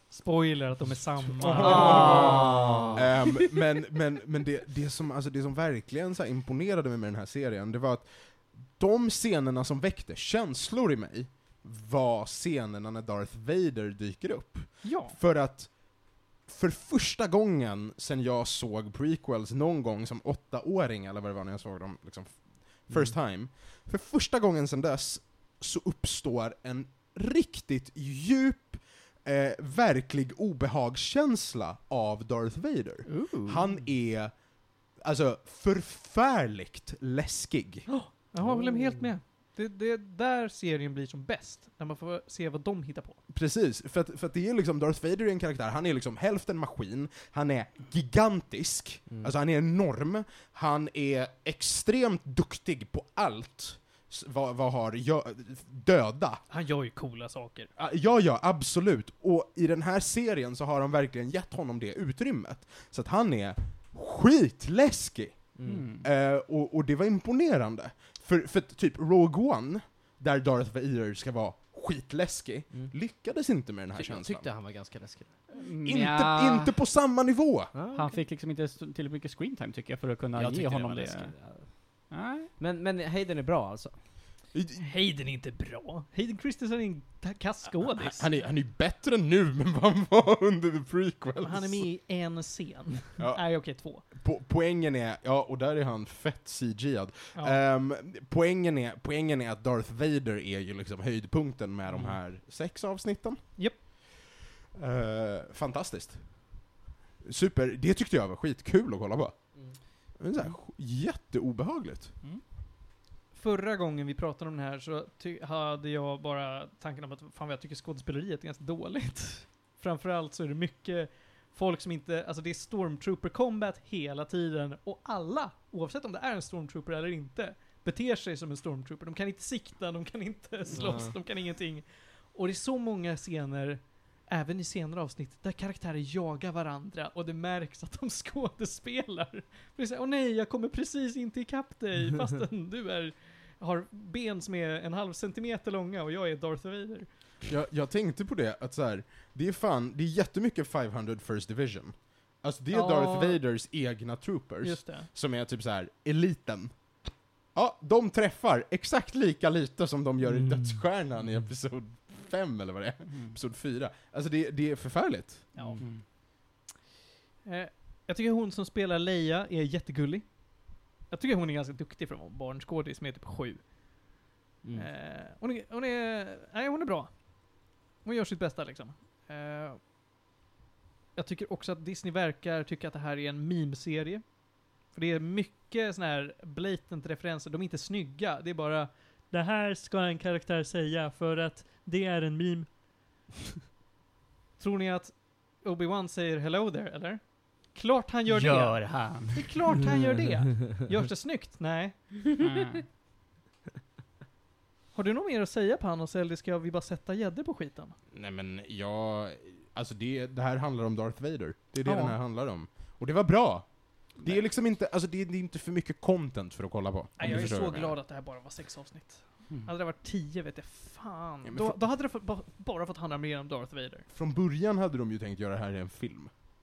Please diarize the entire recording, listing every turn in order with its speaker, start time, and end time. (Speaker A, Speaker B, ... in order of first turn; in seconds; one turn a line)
Speaker A: 0.1-2.5
Speaker B: 1.4-37.9
Speaker C: 1.5-3.1
Speaker A: 14.8-15.2
Speaker C: 22.9-23.1
Speaker D: 33.0-33.6
Speaker A: 37.9-43.2
Speaker C: 38.4-39.1
Speaker B: 43.3-56.4
Speaker C: 49.1-49.3
Speaker A: 56.5-57.7
Speaker B: 57.8-74.8
Speaker C: 65.5-65.9
Speaker D: 65.7-66.0
Speaker C: 72.7-73.0
Speaker C: 73.9-75.4
Speaker D: 75.5-76.8
Speaker B: 75.8-77.7
Speaker C: 77.7-78.2
Speaker D: 77.9-81.4
Speaker C: 80.3-84.0
Speaker D: 82.1-82.5
Speaker B: 84.5-84.8
Speaker A: 84.8-88.3
Speaker B: 87.9-91.8
Speaker A: 91.4-94.0
Speaker B: 93.2-104.1
Speaker A: 97.3-97.6
Speaker B: 104.7-106.7
Speaker B: 107.2-112.2
Speaker A: 113.3-147.1
Speaker C: 130.7-131.2
Speaker B: 147.4-165.7
Speaker A: 152.7-153.4
Speaker A: 154.6-155.1
Speaker D: 163.1-163.3
Speaker A: 165.5-165.8
Speaker D: 165.8-166.0
Speaker A: 167.4-174.1
Speaker C: 174.6-174.9
Speaker A: 174.7-179.8
Speaker A: 181.1-192.8
Speaker A: 194.6-202.4
Speaker D: 198.3-199.6
Speaker D: 202.4-202.8
Speaker A: 204.9-208.0
Speaker B: 208.1-218.0
Speaker A: 211.8-212.2
Speaker A: 217.2-224.1
Speaker B: 221.4-221.8
Speaker B: 224.1-226.3